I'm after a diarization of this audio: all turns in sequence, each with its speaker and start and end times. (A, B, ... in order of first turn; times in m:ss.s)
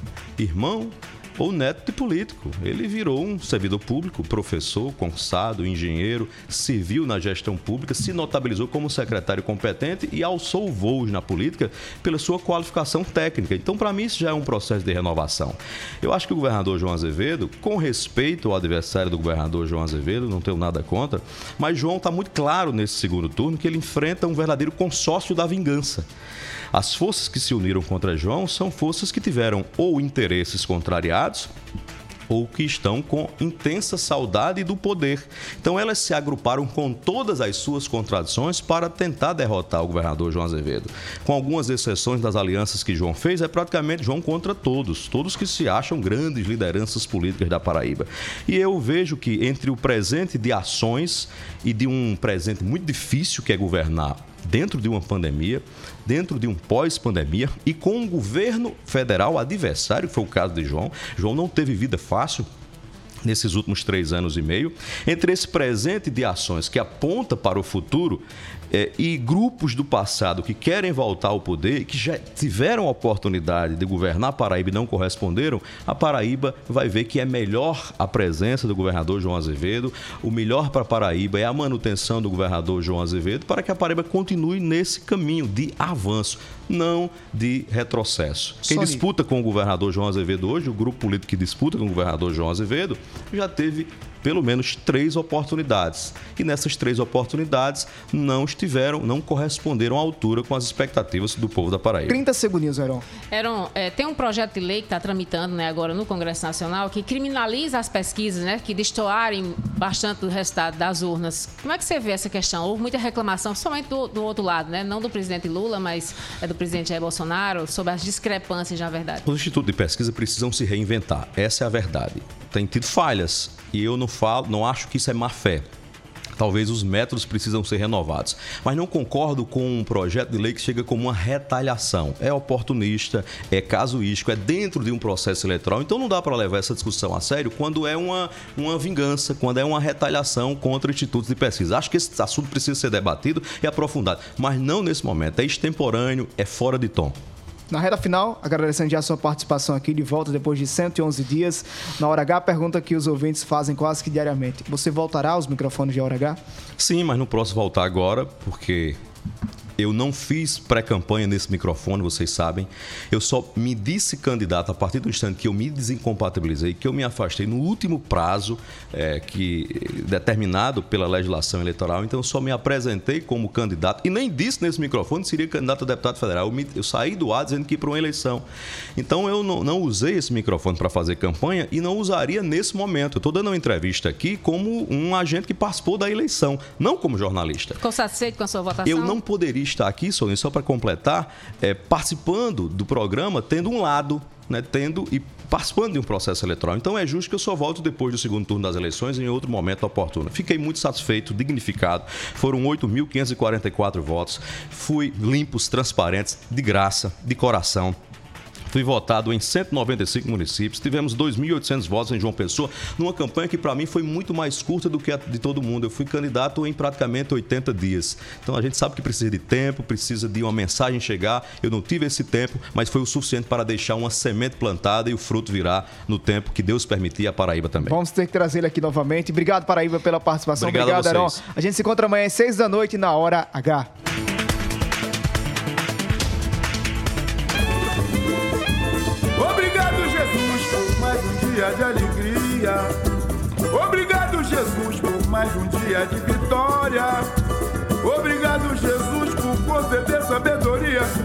0:00.4-0:26.1 A
0:26.7-0:31.5 A
0:32.3-1:02.5 A
1:03.2-1:42.2 A
1:28.7-1:29.0 B
1:42.1-1:43.0 B
1:43.3-1:59.2 C
1:59.2-2:05.6 A
2:06.4-2:27.1 A
2:27.7-2:36.4 B
2:36.8-2:39.0 A
2:39.8-2:58.4 A
2:59.0-3:07.8 A
3:07.8-3:09.2 C
3:08.8-3:28.0 A
3:28.7-3:48.0 A
3:47.8-3:53.9 B
3:50.5-3:51.4 A
3:59.4-4:02.5 D
4:03.8-4:07.0 D
4:08.1-4:10.5 D